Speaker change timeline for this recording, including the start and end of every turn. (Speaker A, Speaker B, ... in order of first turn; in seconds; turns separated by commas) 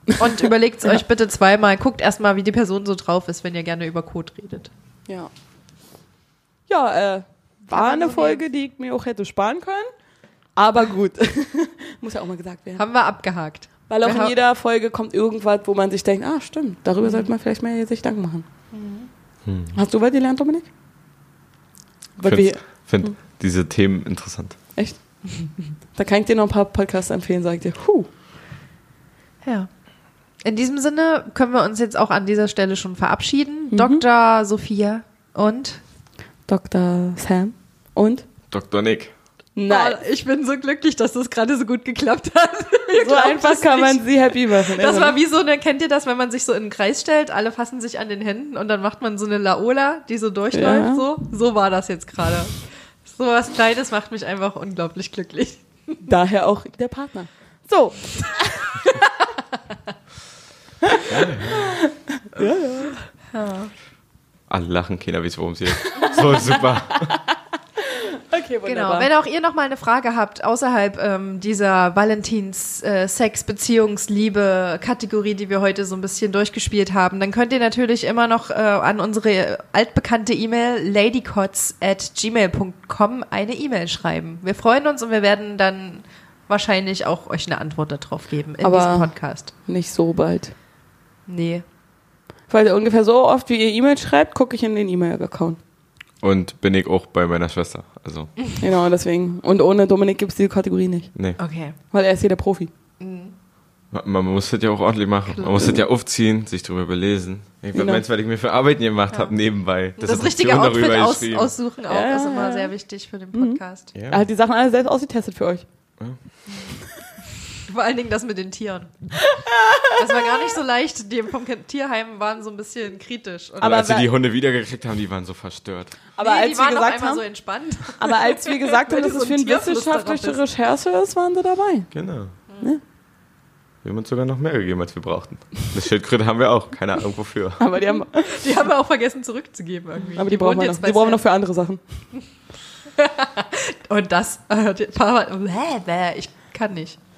Speaker A: 0.2-4.7, Speaker B: 6.7-9.9, Speaker A: 7.7-8.4, Speaker B: 10.6-12.8, Speaker A: 12.8-14.3, Speaker B: 13.9-18.4, Speaker A: 17.0-17.3, Speaker A: 18.7-19.1, Speaker C: 19.4-19.7, Speaker B: 19.7-20.7, Speaker B: 22.2-23.1, Speaker C: 22.2-24.6, Speaker B: 25.9-28.1, Speaker A: 29.4-29.7, Speaker A: 30.4-35.8, Speaker B: 33.7-34.0, Speaker B: 36.5-38.2, Speaker C: 38.5-39.1, Speaker B: 39.5-40.0, Speaker A: 39.6-56.0, Speaker B: 43.0-45.2, Speaker B: 50.5-51.0, Speaker B: 56.0-59.0, Speaker A: 58.7-59.1, Speaker B: 60.8-63.0, Speaker C: 61.1-61.8, Speaker A: 63.3-63.7, Speaker C: 64.5-67.2, Speaker B: 65.9-69.1, Speaker A: 68.6-89.5, Speaker B: 88.6-89.1, Speaker B: 89.7-90.5, Speaker A: 91.3-91.6, Speaker B: 92.5-95.6, Speaker C: 96.2-98.3, Speaker B: 98.6-101.1, Speaker A: 101.4-101.8, Speaker B: 101.9-102.7, Speaker A: 103.0-103.3, Speaker C: 103.9-111.5, Speaker A: 105.3-105.7, Speaker B: 107.7-108.0, Speaker A: 110.0-113.9, Speaker B: 111.9-112.7, Speaker B: 113.3-115.6, Speaker C: 113.9-114.2, Speaker A: 117.6-123.9, Speaker B: 119.5-120.4, Speaker B: 123.6-124.1, Speaker C: 123.6-126.0, Speaker B: 126.2-127.2, Speaker A: 126.2-130.4, Speaker B: 127.8-131.9, Speaker C: 131.9-132.3, Speaker A: 132.5-132.7, Speaker C: 133.8-137.6, Speaker B: 137.6-138.4, Speaker A: 138.2-141.2, Speaker B: 140.2-141.8, Speaker A: 143.0-147.0